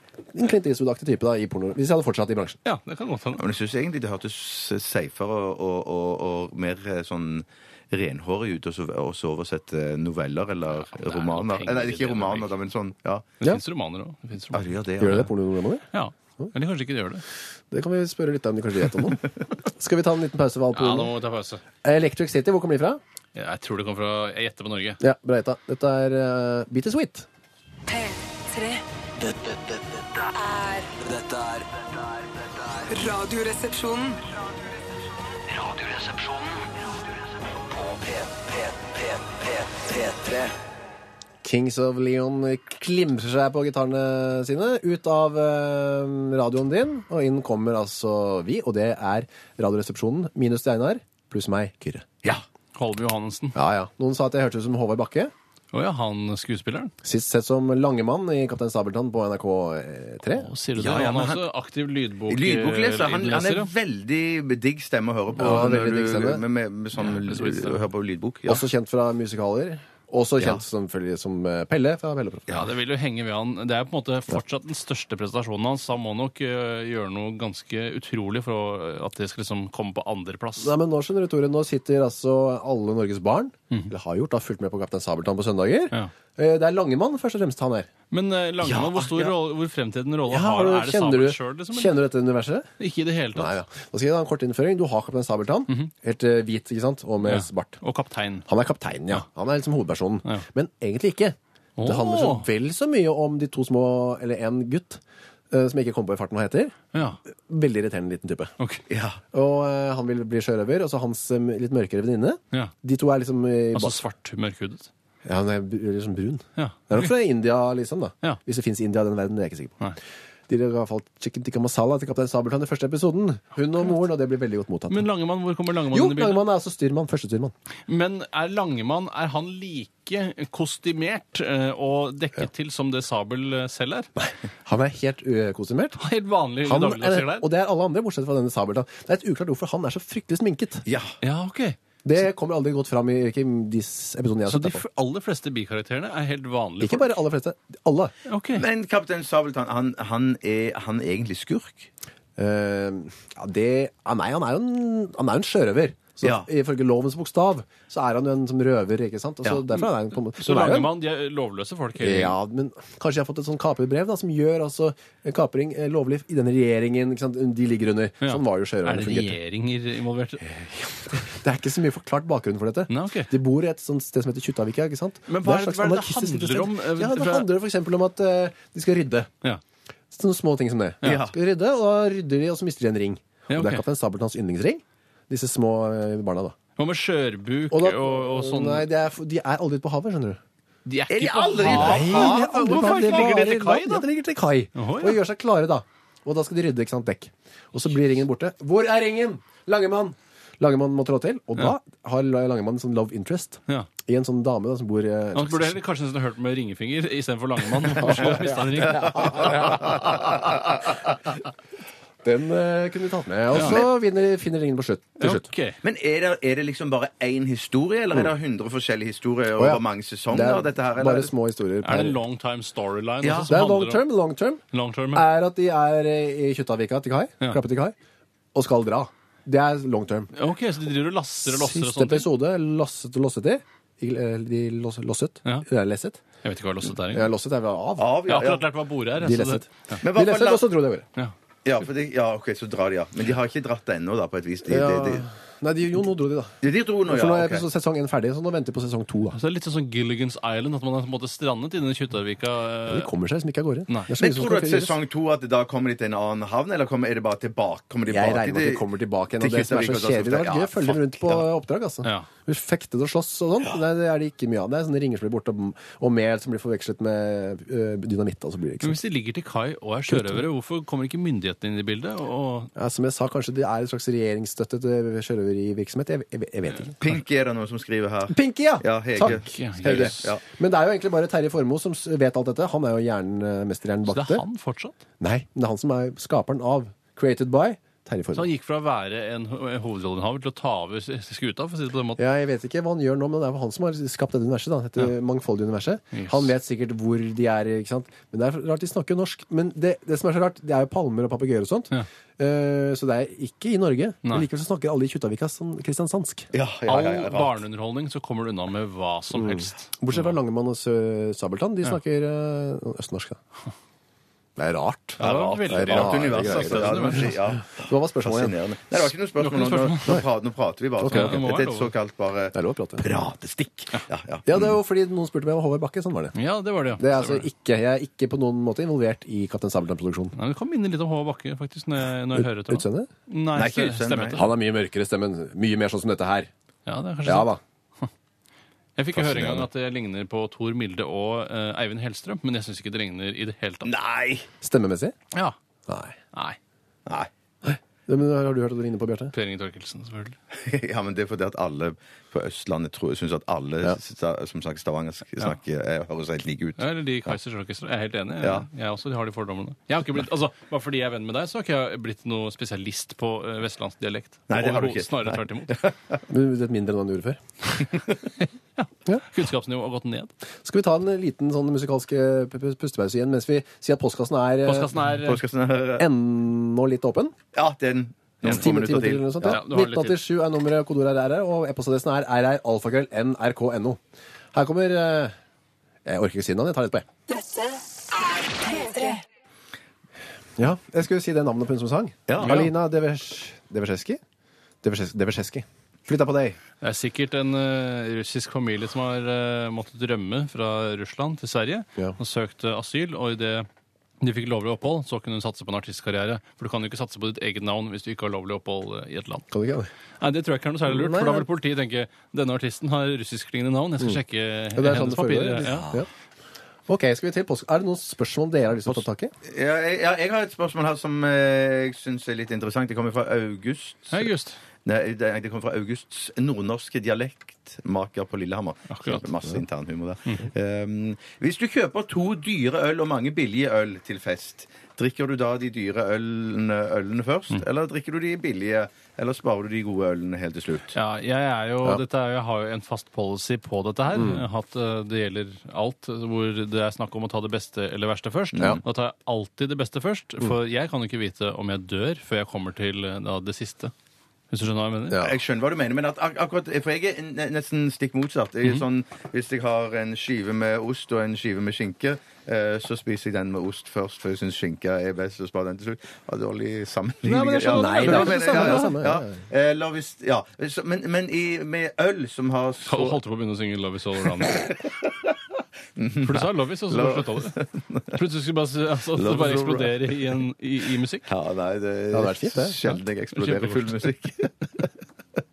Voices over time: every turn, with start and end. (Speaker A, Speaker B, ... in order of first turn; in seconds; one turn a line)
Speaker A: 0.3-2.6
Speaker B: 2.6-3.4
Speaker C: 3.4-13.3
Speaker B: 10.7-12.5
Speaker B: 13.4-15.2
Speaker C: 14.5-15.3
Speaker A: 15.0-15.8
Speaker B: 15.9-17.2
Speaker A: 17.7-21.1
Speaker B: 20.7-21.6
Speaker A: 21.8-23.0
Speaker B: 23.3-25.0
Speaker A: 25.0-27.3
Speaker D: 27.9-34.7
Speaker D: 35.4-40.5
Speaker A: 41.4-52.1
Speaker B: 52.8-53.6
Speaker A: 53.5-55.3
Speaker B: 55.7-56.9
Speaker A: 57.0-60.5
Speaker B: 60.4-63.7
Speaker C: 60.8-61.4
Speaker C: 62.3-68.6
Speaker A: 65.3-66.4
Speaker B: 67.0-67.8
Speaker A: 68.5-72.5
Speaker B: 72.5-80.7
Speaker A: 80.6-87.9
Speaker B: 88.1-92.0
Speaker C: 88.6-89.3
Speaker A: 90.3-92.7
Speaker B: 92.8-93.6
Speaker A: 93.3-97.8
Speaker B: 97.2-98.5
Speaker A: 98.5-106.8
Speaker B: 101.8-102.5
Speaker B: 106.9-107.2
Speaker A: 107.3-108.5
Speaker C: 108.9-109.2
Speaker A: 109.3-114.0
Speaker B: 113.7-114.9
Speaker A: 115.2-119.8
Speaker B: 116.5-117.1
Speaker A: 120.5-125.0
Speaker B: 124.9-126.4
Speaker A: 125.9-127.5
Speaker B: 127.9-134.1
Speaker A: 134.2-136.0
Speaker B: 136.0-137.5
Speaker A: 136.6-140.8
Speaker C: 140.8-141.1
Speaker B: 141.2-141.8
Speaker A: 142.0-144.8
Speaker B: 144.4-147.1
Speaker A: 146.8-148.1
Speaker B: 148.2-148.7
Speaker C: 148.6-151.9
Speaker A: 152.4-160.9
Speaker C: 156.2-156.5
Speaker B: 160.4-162.3
Speaker A: 162.0-169.4
Speaker B: 168.2-170.5
Speaker A: 171.1-179.3
Speaker B: 172.9-173.3
Speaker B: 175.3-177.5
Speaker A: 180.1-186.6
Speaker C: 181.0-181.3
Speaker B: 183.5-183.8
Speaker B: 186.8-188.9
Speaker A: 187.7-190.4
Speaker B: 190.8-194.1
Speaker C: 191.1-193.3
Speaker A: 191.6-205.8
Speaker B: 194.7-195.2
Speaker B: 205.3-209.8
Speaker A: 207.9-210.7
Speaker C: 209.0-210.2
Speaker A: 212.2-215.4
Speaker B: 213.5-213.8
Speaker C: 213.5-213.9
Speaker B: 215.2-215.8
Speaker C: 215.8-221.3
Speaker A: 219.6-222.2
Speaker B: 221.8-224.0
Speaker C: 223.2-223.5
Speaker A: 223.5-224.6
Speaker B: 224.7-225.2
Speaker A: 225.1-227.9
Speaker A: 228.5-230.3
Speaker B: 230.3-232.3
Speaker A: 231.5-236.2
Speaker B: 236.4-237.3
Speaker A: 237.1-238.2
Speaker C: 238.0-238.7
Speaker B: 238.3-240.0
Speaker A: 239.2-241.1
Speaker C: 240.0-240.6
Speaker C: 241.7-245.2
Speaker A: 244.7-246.6
Speaker C: 246.6-247.6
Speaker A: 247.1-249.4
Speaker B: 249.3-253.1
Speaker A: 252.9-254.9
Speaker C: 254.2-258.8
Speaker A: 258.1-269.0
Speaker C: 259.4-261.4
Speaker B: 262.0-262.3
Speaker B: 268.8-272.7
Speaker A: 270.1-270.4
Speaker A: 272.8-276.9
Speaker C: 277.0-280.4
Speaker A: 278.3-284.4
Speaker B: 279.2-280.3
Speaker B: 284.1-285.0
Speaker A: 285.2-288.5
Speaker B: 288.3-292.2
Speaker A: 292.2-306.5
Speaker B: 296.1-296.5
Speaker C: 306.5-307.6
Speaker B: 306.9-310.4
Speaker A: 309.4-313.4
Speaker A: 314.6-318.6
Speaker B: 315.2-317.4
Speaker C: 315.2-324.7
Speaker B: 319.4-320.2
Speaker A: 321.0-321.4
Speaker B: 321.1-321.9
Speaker A: 322.5-323.1
Speaker A: 324.4-326.3
Speaker B: 326.3-327.5
Speaker A: 327.0-330.3
Speaker B: 330.4-334.5
Speaker A: 332.3-333.1
Speaker C: 333.5-334.4
Speaker A: 334.3-336.5
Speaker B: 336.9-338.1
Speaker A: 337.2-337.6
Speaker B: 339.0-343.9
Speaker C: 339.2-339.7
Speaker C: 343.8-344.5
Speaker A: 344.6-345.1
Speaker A: 345.9-346.1
Speaker B: 346.3-346.6
Speaker A: 347.6-349.3
Speaker B: 349.3-350.4
Speaker C: 350.5-356.8
Speaker B: 356.8-365.8
Speaker C: 364.5-366.2
Speaker A: 366.3-367.4
Speaker B: 368.4-370.3
Speaker A: 370.6-374.9
Speaker B: 374.6-375.4
Speaker C: 375.1-376.1
Speaker A: 376.0-377.4
Speaker C: 377.5-379.6
Speaker A: 378.4-384.0
Speaker B: 379.4-380.2
Speaker A: 384.5-385.3
Speaker A: 386.0-387.1
Speaker D: 388.6-389.2
Speaker A: 390.6-394.2
Speaker C: 392.3-392.7
Speaker B: 392.4-392.7
Speaker A: 394.8-396.6
Speaker B: 396.8-403.7
Speaker B: 404.2-409.5
Speaker A: 409.5-409.9
Speaker B: 410.2-416.0
Speaker A: 410.9-411.5
Speaker A: 414.7-416.1
Speaker A: 416.9-419.3
Speaker C: 419.4-424.3
Speaker B: 424.1-424.6
Speaker C: 424.8-440.9
Speaker B: 428.9-429.2
Speaker B: 440.9-453.9
Speaker A: 444.1-444.4
Speaker B: 454.5-455.2
Speaker A: 455.1-455.3
Speaker C: 455.1-473.2
Speaker B: 467.2-468.9
Speaker A: 467.7-469.4
Speaker B: 472.9-474.7
Speaker C: 474.4-475.1
Speaker C: 476.0-478.2
Speaker B: 476.2-477.6
Speaker B: 478.1-481.3
Speaker C: 479.1-479.9
Speaker C: 481.3-484.8
Speaker A: 482.1-482.8
Speaker B: 483.3-484.0